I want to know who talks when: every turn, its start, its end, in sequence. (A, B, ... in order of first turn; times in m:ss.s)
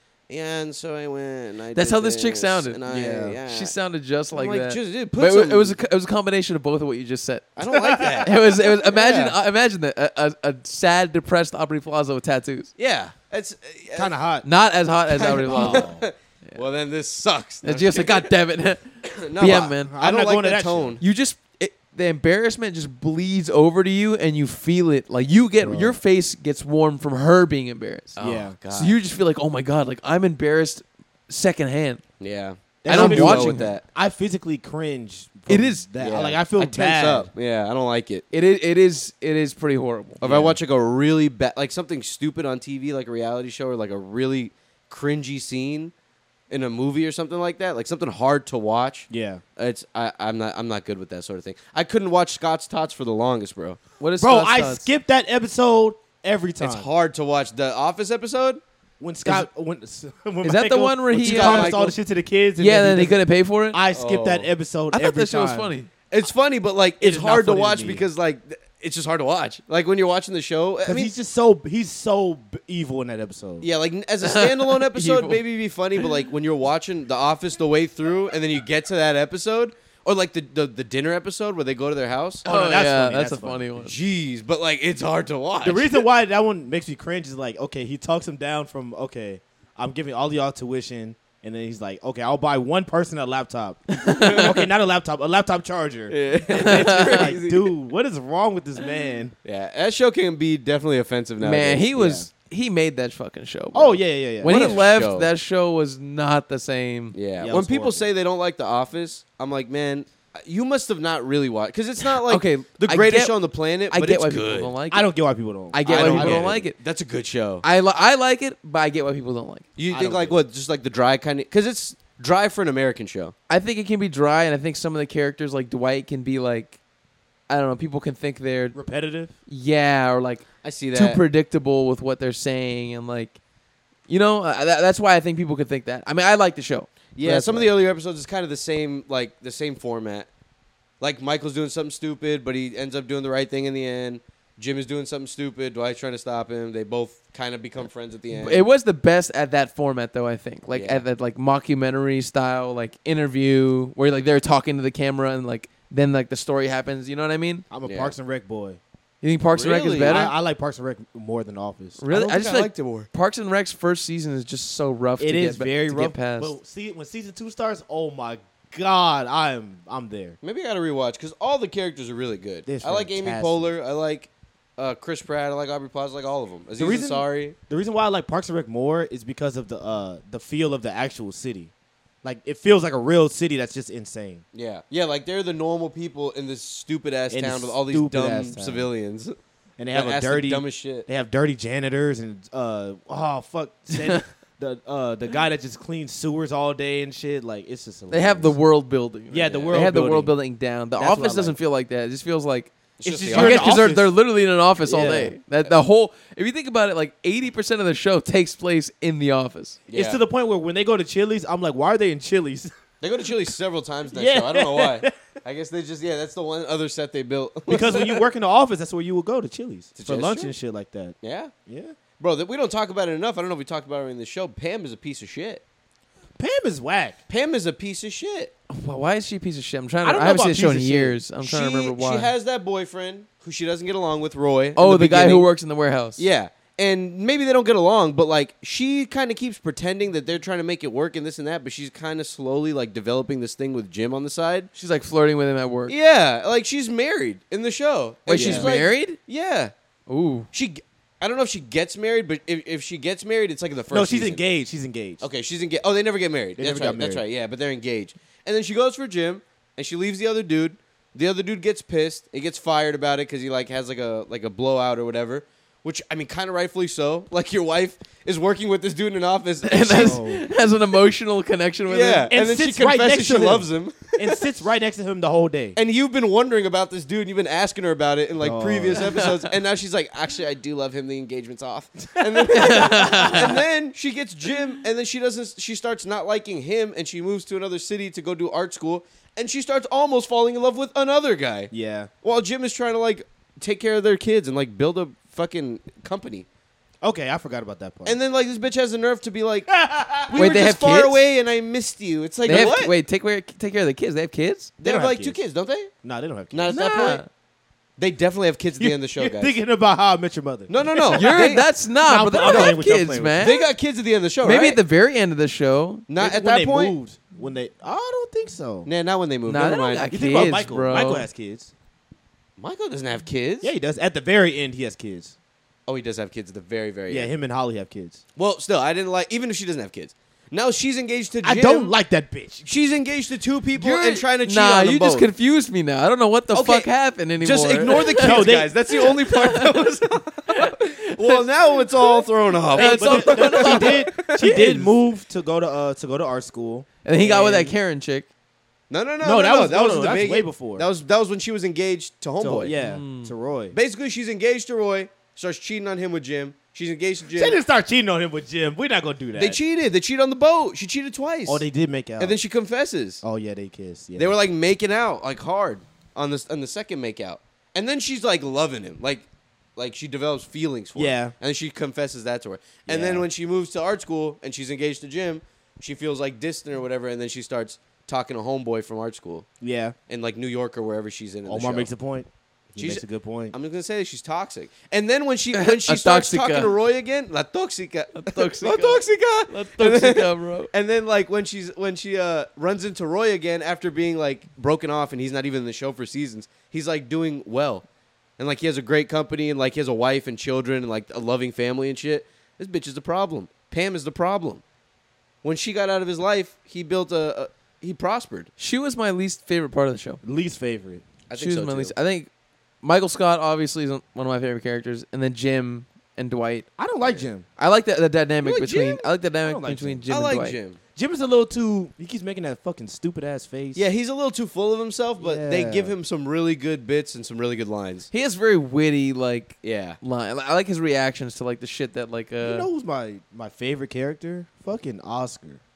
0:00.3-0:03.8 A
0:01.7-0:02.8 B
0:02.9-0:03.4 C
0:03.5-0:12.7 B
0:04.3-0:05.8 A
0:07.6-0:09.4 A
0:07.7-0:08.3 C
0:12.8-0:14.1 A
0:14.0-0:14.5 C
0:14.4-0:15.9 B
0:15.1-0:18.3 A
0:15.4-0:16.0 C
0:17.6-0:19.9 B
0:19.0-0:21.0 A
0:19.5-0:21.0 C
0:21.0-0:28.2 B
0:25.6-0:26.0 C
0:28.2-0:29.0 A
0:28.2-0:28.6 C
0:28.7-0:32.0 B
0:32.2-0:33.8 A
0:32.8-0:37.3 C
0:32.9-0:33.7 B
0:35.5-0:35.9 B
0:36.0-0:38.2 A
0:38.3-0:40.2 B
0:40.2-0:45.9 A
0:40.2-0:40.6 C
0:46.5-0:53.8 A
0:49.1-0:49.4 C
0:54.0-0:54.9 B
0:54.2-0:56.9 C
0:56.6-0:58.6 A
0:59.0-1:03.2 C
1:00.4-1:02.0 B
1:01.2-1:01.8 A
1:02.6-1:03.8 B
1:03.7-1:05.7 C
1:03.9-1:04.5 A
1:04.9-1:05.9 B
1:06.1-1:11.1 A
1:07.0-1:08.1 C
1:10.8-1:13.7 C
1:13.6-1:22.5 A
1:14.2-1:15.4 B
1:22.4-1:23.7 C
1:22.5-1:24.0 B
1:23.8-1:26.0 A
1:25.6-1:39.3 C
1:33.9-1:34.6 B
1:34.2-1:34.6 A
1:36.1-1:37.7 A
1:36.6-1:37.3 B
1:39.4-1:41.9 A
1:41.4-1:47.2 B
1:42.0-1:42.3 C
1:43.7-1:44.8 C
1:44.4-1:45.3 A
1:47.1-1:54.7 A
1:47.4-1:48.1 C
1:52.2-1:53.4 B
1:53.9-1:55.1 B
1:54.9-1:56.6 C
1:55.7-1:56.8 B
1:55.9-1:57.6 A
1:57.6-1:59.6 B
1:59.8-2:03.3 A
1:59.9-2:00.4 C
2:03.5-2:06.8 B
2:07.5-2:08.8 B
2:08.7-2:09.3 C
2:09.5-2:13.4 B
2:10.6-2:11.2 A
2:14.1-2:17.7 B
2:17.2-2:20.3 A
2:21.0-2:28.6 A
2:28.3-2:37.7 B
2:30.7-2:31.0 A
2:37.7-2:38.8 C
2:37.8-2:38.1 A
2:39.2-2:40.3 B
2:39.5-2:40.3 A
2:40.0-2:42.0 C
2:42.0-2:46.6 B
2:42.1-2:43.1 A
2:45.2-2:50.4 C
2:50.4-2:57.6 A
2:52.7-2:53.7 C
2:56.8-3:01.7 C
3:02.2-3:04.4 C
3:04.5-3:09.4 A
3:07.3-3:08.9 C
3:09.8-3:18.6 C
3:09.9-3:11.1 A
3:14.0-3:14.2 B
3:18.1-3:22.7 B
3:19.3-3:20.3 C
3:19.5-3:19.8 A
3:21.0-3:21.6 C
3:23.0-3:23.8 A
3:23.0-3:24.2 C
3:23.3-3:29.8 B
3:24.9-3:25.4 C
3:29.9-3:30.2 A
3:29.9-3:32.7 C
3:33.0-3:38.2 A
3:34.1-3:35.1 C
3:37.7-3:41.2 C
3:40.0-3:40.5 A
3:41.2-3:41.5 A
3:41.7-3:42.0 C
3:42.2-3:45.6 A
3:46.4-3:47.2 C
3:47.3-3:48.5 A
3:48.7-3:52.3 B
3:50.0-3:51.2 C
3:51.4-3:55.5 A
3:54.8-3:56.2 B
3:56.2-4:04.7 A
4:04.8-4:05.9 B
4:05.9-4:09.7 A
4:08.3-4:09.2 B
4:08.3-4:08.7 C
4:10.1-4:10.5 B
4:10.5-4:14.4 A
4:13.9-4:15.2 C
4:15.2-4:30.2 A
4:16.6-4:17.2 C
4:29.6-4:32.3 B
4:29.9-4:30.4 C
4:31.9-4:34.5 A
4:32.3-4:35.8 C
4:35.8-4:51.7 A
4:38.4-4:39.1 C
4:39.1-4:39.5 B
4:42.2-4:43.4 C
4:42.5-4:43.6 B
4:51.7-4:52.1 C
4:52.2-4:56.5 A
4:57.0-4:58.2 C
4:58.1-5:02.9 A
4:59.7-5:00.4 C
5:00.4-5:01.2 B
5:02.5-5:04.7 B
5:04.8-5:05.9 A
5:04.8-5:05.4 C
5:06.0-5:06.8 C
5:06.5-5:07.2 A
5:06.7-5:07.3 B
5:08.0-5:09.6 A
5:08.8-5:11.5 C
5:10.7-5:11.7 A
5:11.1-5:13.6 B
5:12.0-5:13.7 C
5:12.4-5:12.8 A
5:13.4-5:14.8 A
5:14.4-5:16.1 B
5:16.1-5:17.0 A
5:16.2-5:18.9 C
5:18.9-5:20.1 A
5:19.5-5:21.3 B
5:20.1-5:21.7 C
5:22.6-5:23.7 A
5:23.6-5:25.4 C
5:25.9-5:27.3 A
5:27.1-5:28.2 C
5:28.4-5:31.9 A
5:31.4-5:32.7 C
5:32.6-5:35.3 A
5:33.8-5:38.4 B
5:36.5-5:44.9 A
5:38.2-5:38.7 C
5:38.9-5:39.7 B
5:40.5-5:41.4 B
5:42.7-5:47.7 C
5:42.8-5:44.9 B
5:47.0-5:48.3 B
5:48.9-5:52.7 A
5:49.2-5:50.9 C
5:52.4-5:53.8 C
5:52.7-5:53.3 B
5:53.7-5:57.6 A
5:57.3-5:59.6 C
5:59.4-6:01.6 A
6:01.5-6:02.4 C
6:02.2-6:03.2 A
6:03.2-6:04.4 C
6:04.2-6:19.5 A
6:11.0-6:11.3 C
6:12.9-6:13.3 C
6:19.6-6:20.0 C
6:20.1-6:21.9 A
6:21.5-6:23.6 C
6:22.8-6:37.8 A
6:25.5-6:26.7 B
6:28.2-6:30.7 B
6:38.4-6:44.6 A
6:45.4-6:48.5 A
6:48.6-6:50.2 B
6:50.2-6:51.1 C
6:51.3-6:51.9 A
6:51.4-6:52.3 B
6:52.8-6:56.7 B
6:56.8-6:57.5 C
6:57.6-7:00.6 B
6:58.4-6:59.0 A
6:59.4-7:00.0 C
7:00.1-7:00.8 A
7:01.0-7:03.8 C
7:03.8-7:08.1 A
7:05.2-7:06.0 C
7:08.1-7:12.7 B
7:09.6-7:10.0 A
7:12.4-7:15.6 C